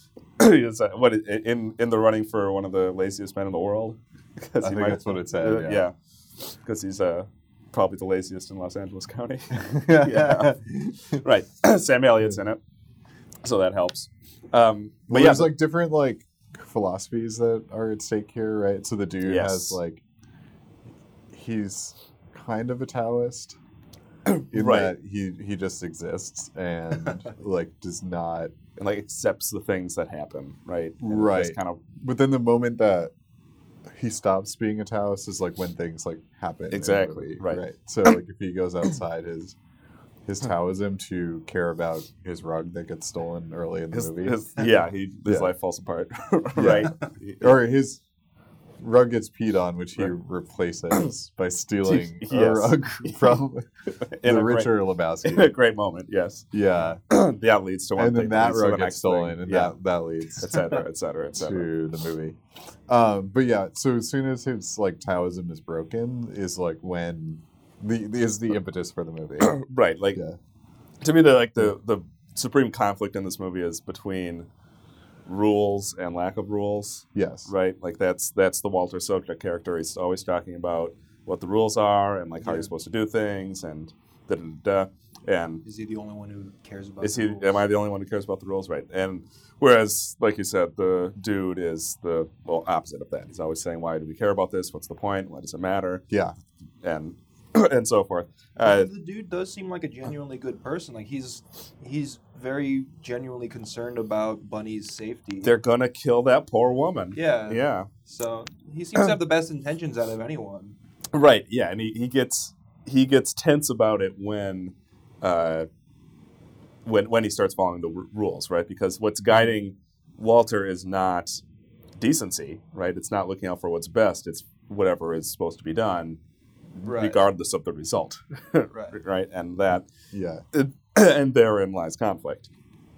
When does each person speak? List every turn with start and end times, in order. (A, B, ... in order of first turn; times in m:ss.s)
0:00.4-0:12.6 A
0:04.6-0:05.9 B
0:09.5-0:11.2 B
0:13.4-0:15.5 A
0:15.1-0:20.0 B
0:19.2-0:19.8 A
0:21.3-0:23.6 B
0:24.3-0:24.9 A
0:24.5-0:28.5 B
0:28.8-0:31.8 A
0:31.0-0:33.1 B
0:33.9-0:39.6 B
0:36.7-0:38.1 A
0:40.3-0:44.4 B
0:43.9-0:47.6 A
0:45.3-0:45.5 B
0:46.6-0:48.0 B
0:48.8-0:53.7 B
0:51.8-0:53.4 A
0:54.1-0:56.5 A
0:54.2-0:55.5 B
0:56.5-0:57.0 B
0:57.1-0:59.7 A
0:58.0-1:00.6 B
1:00.4-1:01.7 A
1:01.4-1:09.6 B
1:09.4-1:10.2 A
1:11.0-1:14.5 A
1:15.3-1:25.6 A
1:17.2-1:17.5 B
1:22.4-1:22.7 C
1:25.6-1:27.6 C
1:27.0-1:36.0 A
1:36.1-1:36.4 B
1:36.8-1:38.9 A
1:38.6-1:45.5 C
1:45.4-1:47.9 A
1:47.1-1:50.8 C
1:51.1-1:55.7 A
1:56.8-2:01.4 A
2:02.0-2:06.2 A
2:06.8-2:09.9 A
2:06.8-2:07.2 C
2:10.1-2:10.4 B
2:10.5-2:12.5 A